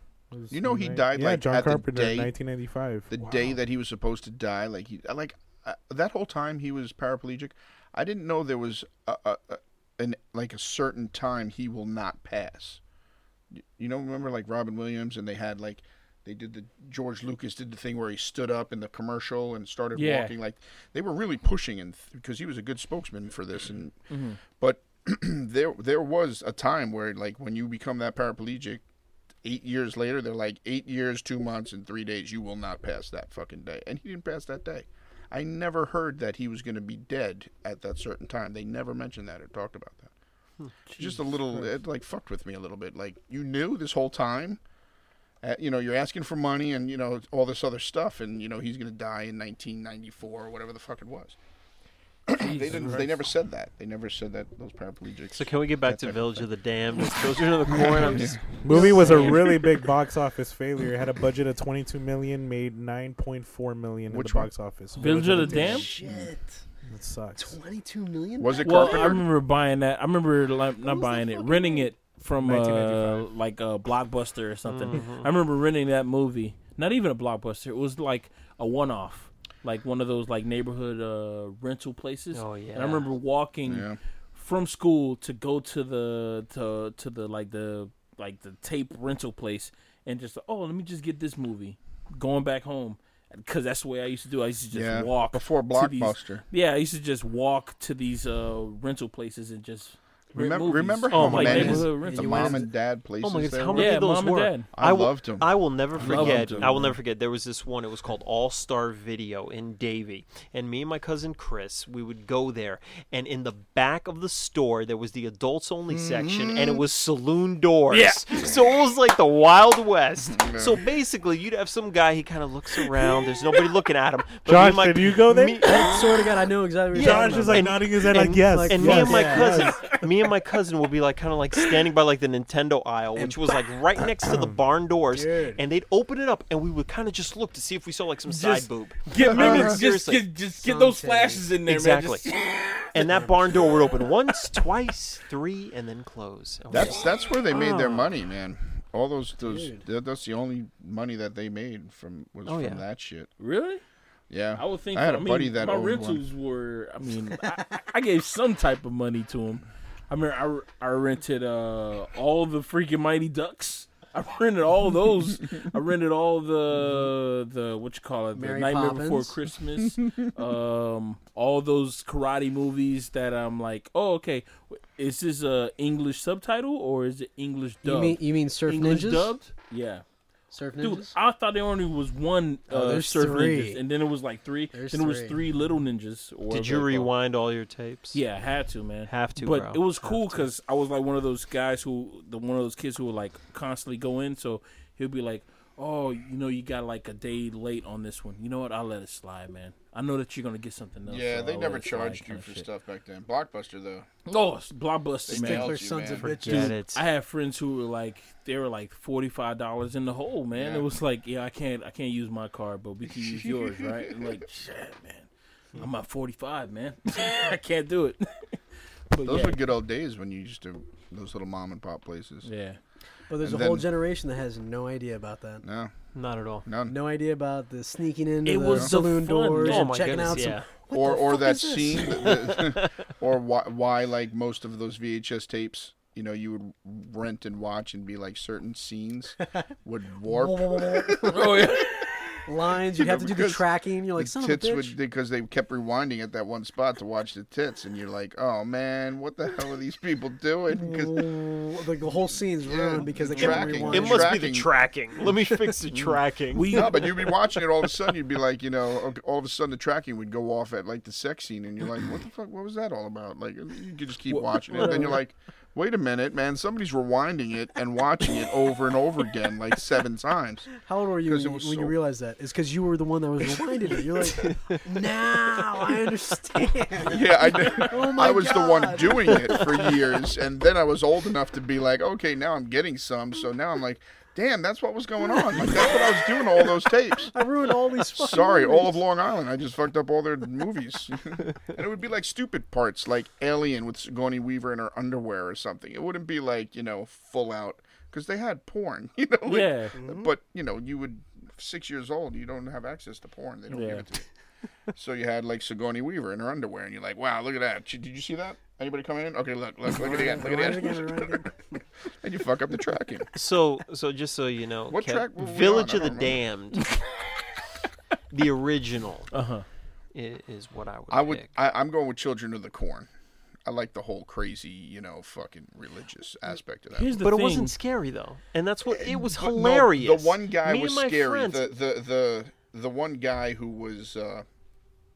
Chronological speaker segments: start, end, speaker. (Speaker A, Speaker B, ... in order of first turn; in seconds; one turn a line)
Speaker A: 0.3-3.4
Speaker B: 0.5-2.3
Speaker B: 3.1-12.8
Speaker B: 13.5-24.0
Speaker C: 19.9-20.4
Speaker C: 24.1-24.4
Speaker B: 24.5-28.8
Speaker B: 29.4-40.1
Speaker C: 40.9-41.7
Speaker B: 41.0-44.6
Speaker B: 45.4-51.4
Speaker B: 52.3-56.5
Speaker C: 52.4-53.1
Speaker D: 55.3-59.6
Speaker B: 57.1-58.4
Speaker A: 58.6-65.9
Speaker E: 58.7-59.1
Speaker B: 64.1-64.5
Speaker C: 65.0-65.9
Speaker E: 65.2-66.6
Speaker B: 65.6-66.3
Speaker A: 66.9-67.6
Speaker E: 67.4-69.2
Speaker B: 68.4-69.3
Speaker C: 68.6-102.6
Speaker E: 70.8-71.9
Speaker A: 72.4-73.3
Speaker D: 74.7-75.3
Speaker D: 82.3-83.1
Speaker B: 83.7-84.0
Speaker B: 94.7-96.4
Speaker B: 100.3-104.0
Speaker D: 101.1-102.5
Speaker E: 101.2-102.7
Speaker D: 103.2-126.0
Speaker C: 103.7-104.7
Speaker B: 104.7-107.0
Speaker C: 106.0-106.8
Speaker B: 116.1-116.8
Speaker C: 117.9-118.2
Speaker B: 120.3-120.8
Speaker A: 124.5-125.6
Speaker E: 125.5-129.8
Speaker D: 126.9-140.2
Speaker A: 127.0-129.8
Speaker E: 135.1-135.6
Speaker C: 138.3-142.9
Speaker B: 139.2-139.8
Speaker E: 140.6-141.5
Speaker D: 141.7-142.3
Speaker D: 142.9-148.1
Speaker E: 143.0-143.4
Speaker B: 146.7-153.3
Speaker E: 149.4-149.8
Speaker D: 152.4-152.8
Speaker C: 153.4-153.8
Speaker B: 154.3-156.2
Speaker C: 154.6-180.0
Speaker E: 168.3-169.4
Speaker E: 177.8-179.3
Speaker E: 180.5-181.2
Speaker C: 180.8-187.1
Speaker E: 182.7-183.8
Speaker E: 184.7-185.4
Speaker D: 186.5-188.2
Speaker C: 188.1-202.7
Speaker D: 189.1-190.4
Speaker B: 201.1-204.1
Speaker C: 204.3-205.8
Speaker B: 205.3-206.4
Speaker E: 205.3-206.8
Speaker D: 206.2-207.1
Speaker C: 206.5-218.6
Speaker B: 210.5-210.9
Speaker B: 213.1-214.4
Speaker C: 219.1-219.6
Speaker B: 219.2-222.5
Speaker C: 222.4-222.8
Speaker E: 223.3-225.7
Speaker B: 223.4-223.9
Speaker B: 225.7-225.9
Speaker D: 226.1-226.7
Speaker B: 226.7-226.9
Speaker E: 226.9-232.6
Speaker C: 228.4-230.5
Speaker D: 229.6-230.7
Speaker B: 230.9-241.6
Speaker D: 232.3-232.9
Speaker E: 240.3-245.0
Speaker C: 241.3-242.1
Speaker B: 242.9-251.4
Speaker E: 250.7-254.5
Speaker B: 252.6-254.7
Speaker D: 253.4-256.8
Speaker C: 255.9-257.4
Speaker B: 256.7-272.0
Speaker C: 264.3-265.2
Speaker E: 264.8-265.2
Speaker E: 270.7-280.0
Speaker D: 274.4-274.8
Speaker B: 277.1-287.4
Speaker E: 285.6-286.1
Speaker E: 287.3-289.0
Speaker B: 288.1-304.3
Speaker C: 299.5-300.0
Speaker E: 300.0-300.3
Speaker C: 303.7-304.1
Speaker B: 304.9-311.4
Speaker E: 309.9-311.8
Speaker B: 312.2-313.3
Speaker D: 313.3-316.9
Speaker B: 314.9-316.4
Speaker D: 318.3-319.3
Speaker C: 319.3-319.7
Speaker D: 320.1-321.5
Speaker B: 321.1-323.1
Speaker B: 323.6-327.2
Speaker C: 326.9-327.7
Speaker D: 327.2-331.7
Speaker B: 328.9-334.5